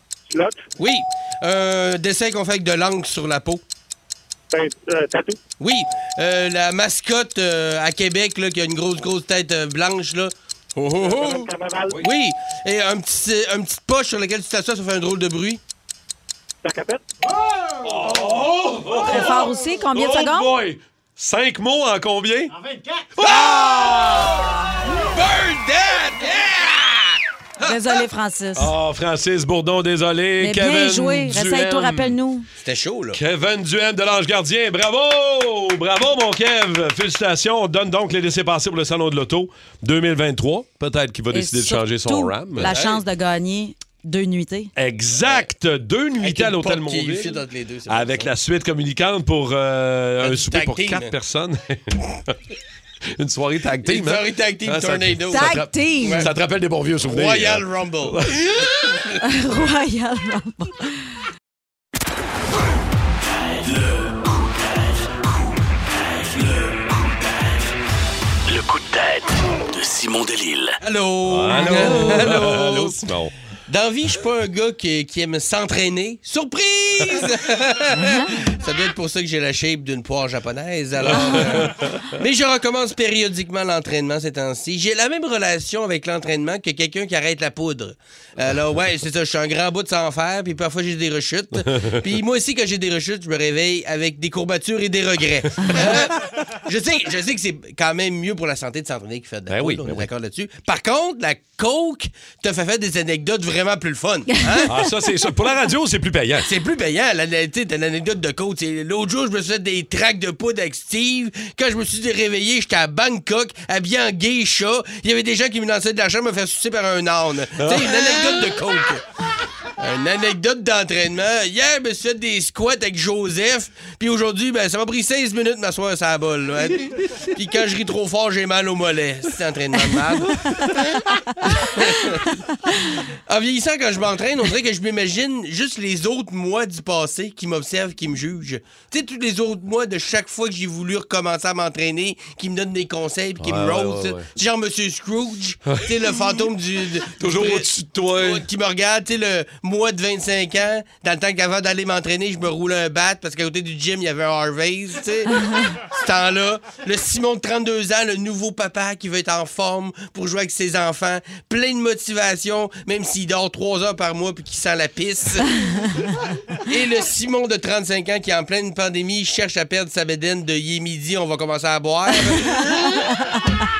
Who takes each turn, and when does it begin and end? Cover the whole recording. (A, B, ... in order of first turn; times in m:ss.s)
0:00.3-0:00.6 A
0:00.8-0:03.6 B
0:04.5-0:05.4 A
0:05.6-0:15.6 B
0:11.1-0:12.0 A
0:16.6-0:17.0 A
0:17.6-0:22.6 C
0:19.0-0:20.5 D
0:23.2-0:24.5 C
0:23.2-0:27.2 B
0:24.4-0:25.0 D
0:27.6-0:28.7 D
0:28.6-0:32.2 C
0:30.4-0:32.5 D
0:32.6-0:33.2 B
0:33.1-0:42.8 C
0:41.3-0:44.7 D
0:42.6-0:43.0 B
0:44.8-0:52.4 C
0:46.2-0:48.3 B
0:50.2-0:51.1 B
0:53.2-0:58.8 C
0:53.8-0:56.3 B
0:55.3-0:56.3 D
0:57.0-0:58.2 B
0:59.2-1:01.0 D
1:03.6-1:05.1 E
1:06.0-1:06.8 E
1:08.5-1:10.8 E
1:10.8-1:13.0 B
1:11.2-1:13.3 C
1:11.6-1:12.3 D
1:13.7-1:44.8 B
1:17.9-1:18.3 D
1:21.1-1:22.0 C
1:21.1-1:21.4 D
1:39.5-1:40.1 C
1:44.6-1:46.5 C
1:46.4-1:59.0 B
1:57.6-1:58.6 C
1:59.8-2:12.4 B
2:13.3-2:45.6 B
2:23.4-2:24.3 C
2:27.2-2:28.4 C
2:46.6-2:53.1 B